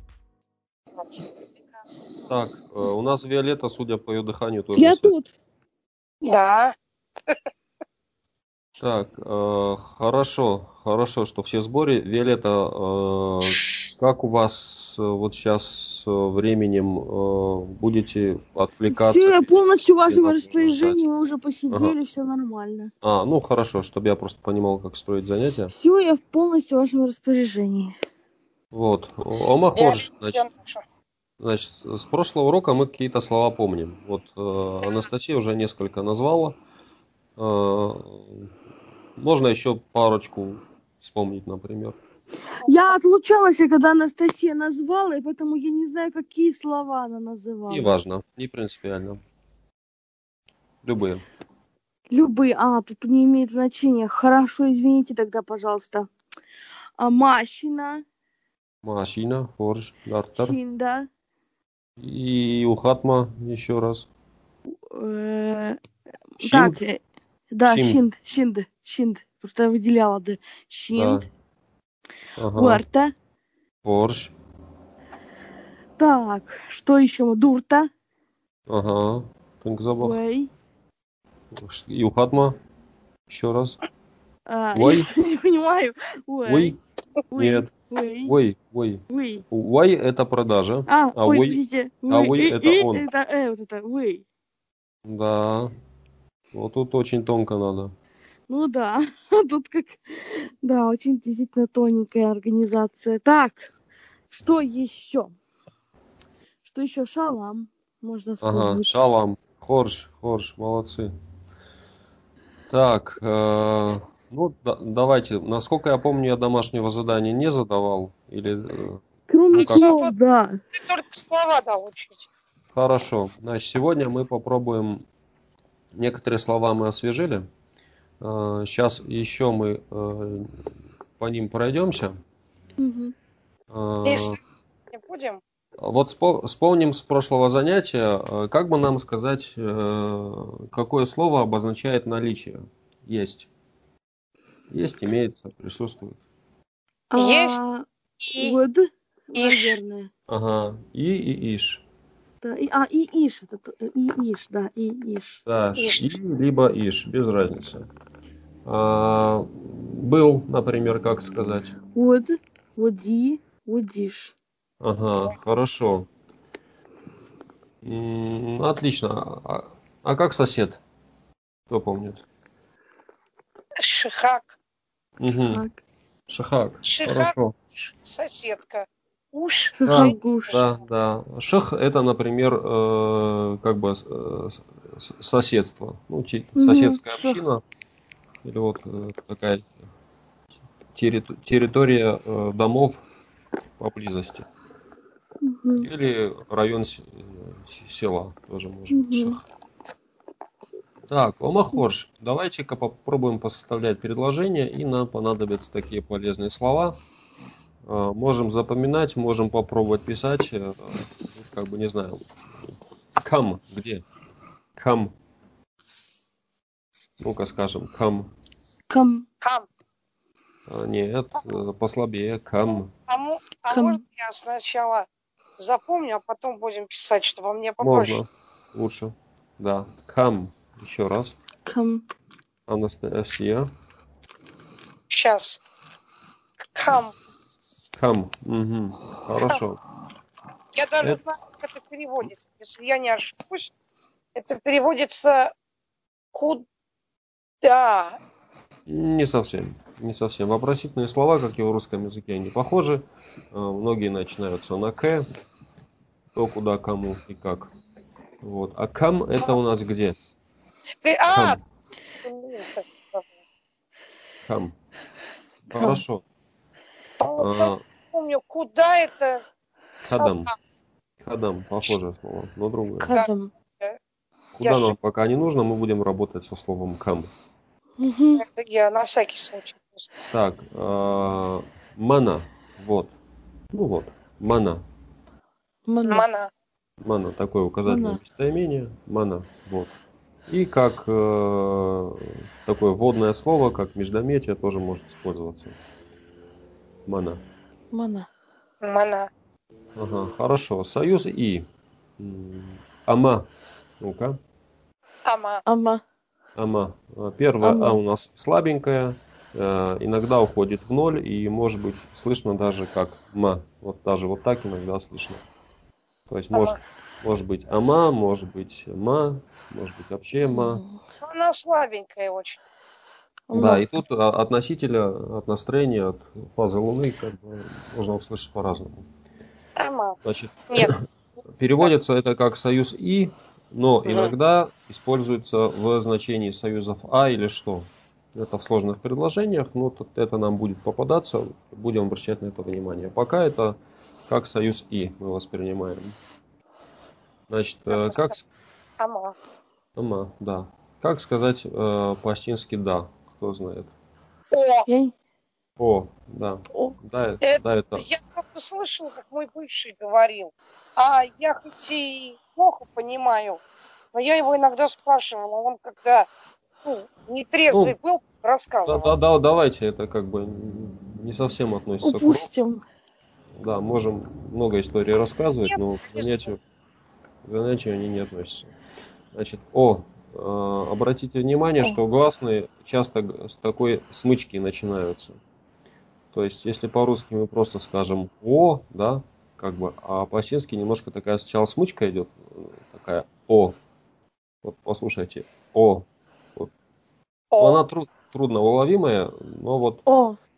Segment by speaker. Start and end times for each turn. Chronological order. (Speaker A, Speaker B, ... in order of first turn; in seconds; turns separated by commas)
Speaker A: 2.3-5.1, Speaker B: 4.7-5.3, Speaker C: 6.2-6.7, Speaker A: 8.8-21.0, Speaker B: 18.9-22.9, Speaker A: 23.0-25.7, Speaker B: 25.7-27.9, Speaker A: 28.7-30.4, Speaker C: 29.8-30.8, Speaker A: 31.4-36.6, Speaker A: 37.4-38.5, Speaker A: 39.2-42.0, Speaker B: 42.6-47.9, Speaker A: 47.7-49.2, Speaker A: 50.8-51.2, Speaker B: 52.1-56.1, Speaker B: 57.0-58.0, Speaker A: 58.8-60.6, Speaker B: 60.4-61.1, Speaker A: 62.0-64.1, Speaker B: 64.9-65.8, Speaker B: 66.4-67.0, Speaker A: 66.4-66.8, Speaker B: 67.5-71.2, Speaker A: 67.7-68.0, Speaker A: 70.9-71.3, Speaker A: 72.4-72.8, Speaker B: 72.5-73.1, Speaker A: 73.8-74.3, Speaker B: 76.0-77.9, Speaker A: 78.7-80.2, Speaker B: 80.0-80.5, Speaker A: 81.5-82.6, Speaker A: 83.3-83.8, Speaker B: 84.5-86.8, Speaker A: 84.7-85.1, Speaker A: 86.4-86.8, Speaker B: 87.3-88.3, Speaker A: 87.3-87.7, Speaker A: 88.2-93.0, Speaker B: 89.1-89.4, Speaker B: 90.9-94.2, Speaker A: 95.0-95.7, Speaker A: 96.5-97.9, Speaker B: 98.5-103.7, Speaker B: 104.3-105.3, Speaker B: 106.6-109.0, Speaker A: 108.4-111.1, Speaker A: 112.7-119.9, Speaker B: 119.3-120.6, Speaker C: 119.5-120.1, Speaker C: 120.7-122.3, Speaker A: 122.7-125.0, Speaker A: 125.9-127.5, Speaker A: 128.2-130.6, Speaker A: 131.2-132.2, Speaker B: 132.8-133.1, Speaker A: 133.7-134.4, Speaker C: 134.0-134.4, Speaker C: 134.9-135.4, Speaker A: 135.8-143.5, Speaker A: 144.7-146.2, Speaker B: 147.1-150.1, Speaker C: 147.2-147.6, Speaker C: 148.2-148.6, Speaker C: 149.3-149.8, Speaker A: 150.3-151.8, Speaker B: 152.4-155.4, Speaker A: 155.4-157.9, Speaker C: 155.8-156.1, Speaker A: 158.7-161.8, Speaker B: 161.9-164.3, Speaker A: 164.8-166.1, Speaker A: 167.8-170.8, Speaker A: 171.7-172.2, Speaker C: 173.8-174.5, Speaker A: 175.2-175.6, Speaker B: 175.3-175.8, Speaker A: 176.3-177.6, Speaker C: 176.8-180.7, Speaker B: 179.7-180.6, Speaker A: 179.8-187.6, Speaker B: 186.5-187.4, Speaker A: 188.4-189.7, Speaker A: 190.9-193.0, Speaker A: 193.8-194.5, Speaker B: 195.4-195.9, Speaker A: 195.8-199.4, Speaker B: 198.9-199.4, Speaker A: 201.1-207.0, Speaker A: 207.8-212.2, Speaker A: 213.2-214.0, Speaker A: 214.8-215.1, Speaker A: 217.2-218.3, Speaker B: 218.9-219.2, Speaker C: 219.4-219.7, Speaker A: 220.7-222.9, Speaker C: 223.1-225.1, Speaker B: 223.7-224.0, Speaker C: 225.6-228.2, Speaker A: 227.8-231.4, Speaker B: 231.7-232.0, Speaker A: 232.7-233.7, Speaker C: 235.1-235.6, Speaker C: 236.7-237.1, Speaker A: 237.9-239.8, Speaker C: 240.7-243.7, Speaker C: 244.3-245.5, Speaker C: 246.3-246.6, Speaker C: 247.6-248.2, Speaker A: 248.9-255.3, Speaker A: 256.4-257.7, Speaker A: 258.4-260.2, Speaker C: 261.0-261.6, Speaker A: 261.3-261.6, Speaker C: 262.2-263.2, Speaker A: 264.4-264.7, Speaker A: 265.7-266.2, Speaker B: 265.7-266.0, Speaker C: 267.2-269.4, Speaker A: 267.4-267.8, Speaker A: 270.0-270.5, Speaker C: 270.2-270.5, Speaker A: 271.2-273.1, Speaker B: 273.0-273.5, Speaker A: 274.6-277.3, Speaker C: 274.6-274.9, Speaker B: 278.0-278.4, Speaker C: 278.4-280.1, Speaker A: 280.3-283.1, Speaker A: 283.7-284.8, Speaker B: 285.9-286.2, Speaker C: 286.0-286.5, Speaker A: 287.0-289.9, Speaker B: 287.9-288.2, Speaker A: 290.5-295.8, Speaker A: 297.1-297.4, Speaker B: 297.9-298.3, Speaker C: 298.8-299.3, Speaker A: 299.9-301.7, Speaker A: 302.2-303.5, Speaker A: 304.0-304.4, Speaker C: 305.2-305.6, Speaker B: 305.6-306.0, Speaker A: 306.6-315.4, Speaker B: 307.6-308.0, Speaker A: 316.3-320.8, Speaker C: 316.5-316.8, Speaker B: 320.5-321.0, Speaker C: 321.2-322.6, Speaker B: 323.5-323.9, Speaker A: 323.5-329.1, Speaker C: 329.8-330.2, Speaker A: 330.2-331.0, Speaker A: 331.6-346.2, Speaker C: 334.1-334.3, Speaker A: 347.5-348.4, Speaker C: 347.9-348.2, Speaker C: 349.0-349.3, Speaker A: 349.9-353.9, Speaker C: 354.5-354.9, Speaker B: 354.9-355.1, Speaker A: 355.8-358.1, Speaker C: 357.4-363.6, Speaker C: 364.1-366.3, Speaker C: 366.8-369.1, Speaker A: 367.7-367.9, Speaker A: 368.9-372.5, Speaker B: 372.0-372.8, Speaker A: 373.6-376.6, Speaker C: 375.7-376.5, Speaker A: 377.4-378.7, Speaker A: 379.3-385.4, Speaker A: 386.3-393.8, Speaker A: 394.6-396.7, Speaker C: 397.5-397.8, Speaker A: 397.6-400.0, Speaker B: 400.1-400.4